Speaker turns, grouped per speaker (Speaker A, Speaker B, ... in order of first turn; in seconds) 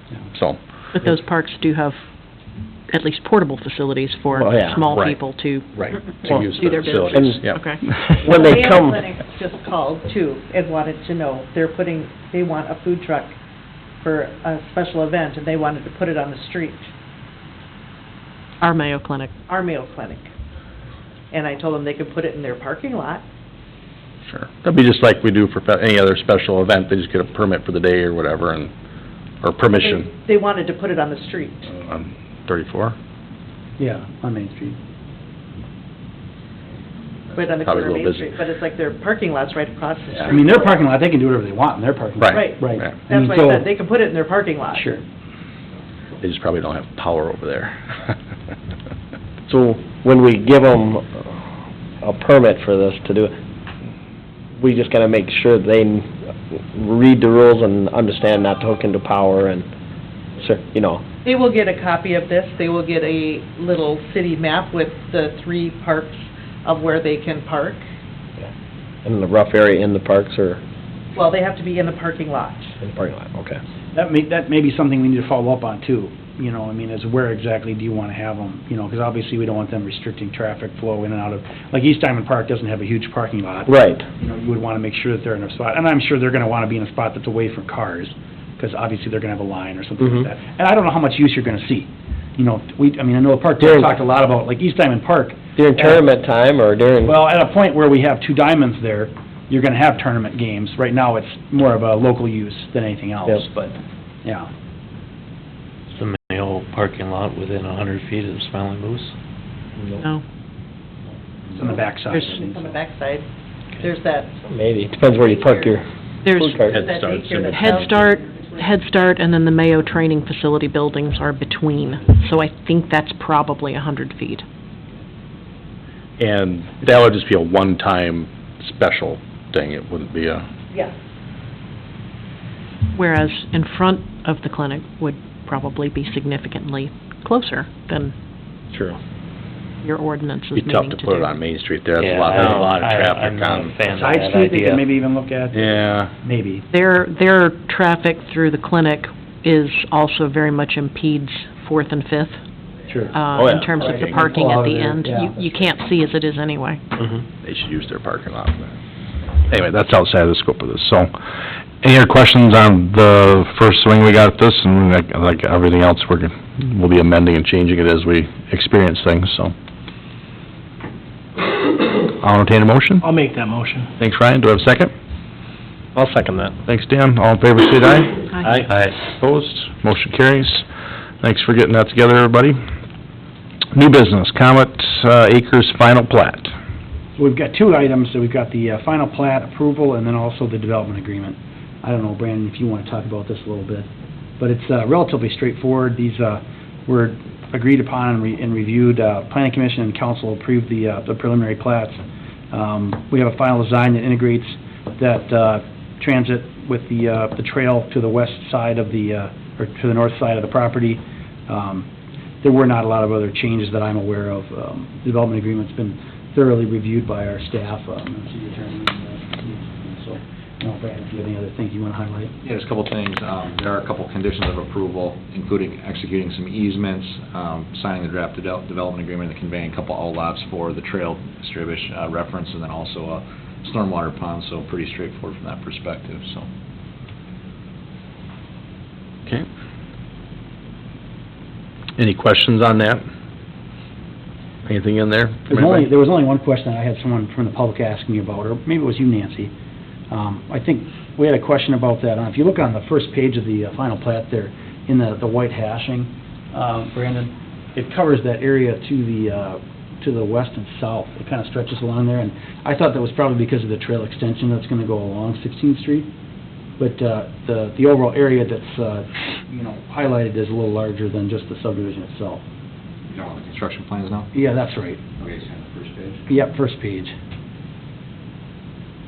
Speaker A: 0.3-0.6, 4.9-5.2, 5.7-8.2, 24.3-28.7, 29.4-30.1, 31.7-33.0, 37.6-38.3, 42.2-42.9, 46.2-48.1, 116.7-118.1, 126.2-130.4, 140.5-143.8, 145.5-146.1, 157.4-158.7, 159.5-161.1, 161.8-169.5, 172.1-173.0, 174.0-174.9, 176.6-180.7, 181.2-182.6, 183.7-186.5, 242.0-243.0, 244.7-245.8
Speaker B: 0.9-2.0, 2.9-7.8, 18.6-19.3, 110.0-110.2, 116.2-116.7, 117.5-124.4, 132.9-138.1, 139.8-141.3, 146.7-152.4, 153.1-156.8
Speaker C: 4.3-4.8, 7.1-7.4, 8.2-9.0, 49.5-51.4, 52.0-53.3, 54.5-59.7, 60.4-61.0, 69.0-70.6, 72.8-73.6, 83.7-84.1, 93.6-93.9, 95.5-97.2, 114.4-116.8, 138.7-139.0, 153.3-154.3, 175.9-176.5
Speaker D: 8.2-13.3, 14.0-16.9, 19.4-20.3, 21.3-23.2, 29.8-31.7, 37.3-40.8, 42.3-44.9, 61.2-67.8, 71.1-72.7, 111.6-113.2, 113.8-114.3, 115.1-115.7, 116.7-118.7
Speaker E: 33.8-34.8, 40.3-43.7, 44.7-45.0, 73.9-96.0, 97.0-104.5, 111.5-112.8, 143.9-146.7, 152.9-153.1, 153.8-155.5, 187.2-193.9, 194.4-202.0, 202.5-211.9, 212.4-222.3, 245.5-249.5, 250.1-266.1, 266.8-272.4, 274.3-275.1, 276.3-277.1
Speaker F: 105.9-109.1, 142.0-144.8
Speaker G: 222.4-236.5, 273.1-274.3, 275.2-276.2